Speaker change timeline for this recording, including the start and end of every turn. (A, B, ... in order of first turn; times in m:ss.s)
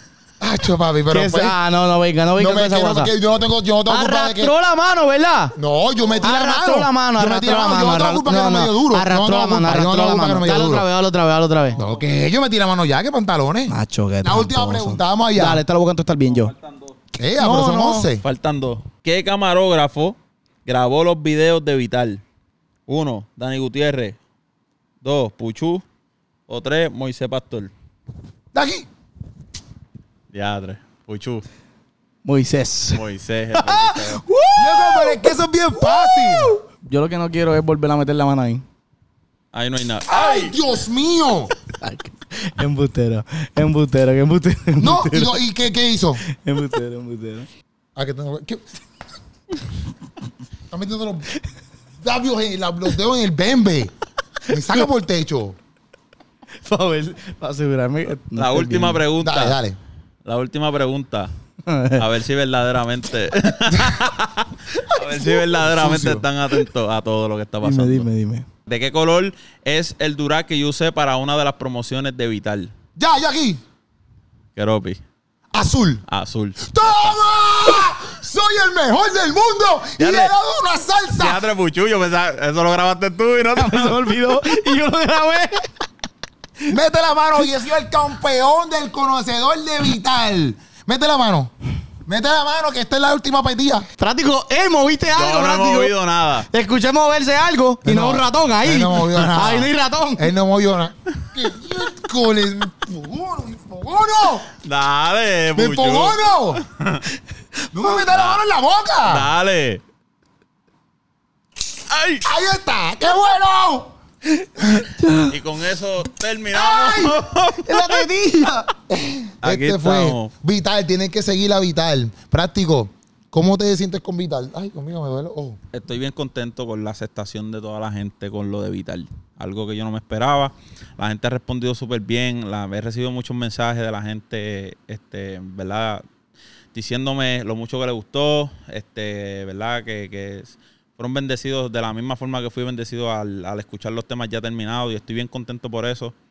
0:00.4-0:01.6 A
0:01.1-0:03.1 B
0:02.4-0:04.5 A
0:03.9-0:05.6 B
0:05.6-0:10.9 A
0:06.2-0:11.8 B
0:11.7-0:12.1 C
0:11.8-0:15.6 A
0:13.7-0:16.5 B
0:16.2-0:17.0 C
0:17.2-0:18.2 A
0:17.4-0:18.1 B
0:18.2-0:22.2 C
0:22.9-0:24.2 C
0:25.0-0:25.8 C
0:26.5-0:27.7 C
0:28.5-0:28.9 A
0:30.3-0:31.4 C
0:32.2-0:38.6 B
0:32.9-0:34.3 C
0:34.6-0:36.5 A
0:39.5-0:40.6 C
0:40.1-0:41.5 A
0:41.8-0:45.4 B
0:44.8-0:46.2 A
0:46.3-0:47.5 B
0:48.0-0:48.6 A
0:50.7-0:51.3 A
0:52.0-0:53.9 A
0:54.5-0:55.6 A
0:56.6-0:59.0 B
0:58.4-0:59.6 C
0:59.2-0:59.8 A
1:00.2-1:01.3 C
1:01.7-1:02.1 B
1:02.0-1:08.1 C
1:05.0-1:06.3 A
1:07.6-1:08.5 B
1:08.7-1:12.7 C
1:13.0-1:13.6 A
1:14.6-1:15.0 C
1:15.5-1:16.0 A
1:16.1-1:17.2 C
1:16.6-1:21.4 A
1:20.0-1:20.4 C
1:21.1-1:24.7 C
1:23.5-1:25.7 B
1:26.7-1:31.5 A
1:32.1-1:33.9 A
1:34.0-1:35.9 B
1:35.1-1:36.5 C
1:36.5-1:40.3 B
1:37.8-1:44.5 A
1:44.6-1:47.1 C
1:45.6-1:46.6 A
1:47.7-1:49.3 A
1:47.9-1:48.4 C
1:49.0-1:49.8 C
1:51.9-1:52.3 C
1:52.2-1:53.9 A
1:55.0-1:55.4 B
1:55.3-1:58.1 C
1:56.5-1:58.7 B
1:58.9-2:05.6 A
1:59.4-2:00.3 C
2:05.7-2:16.0 C
2:16.7-2:26.1 C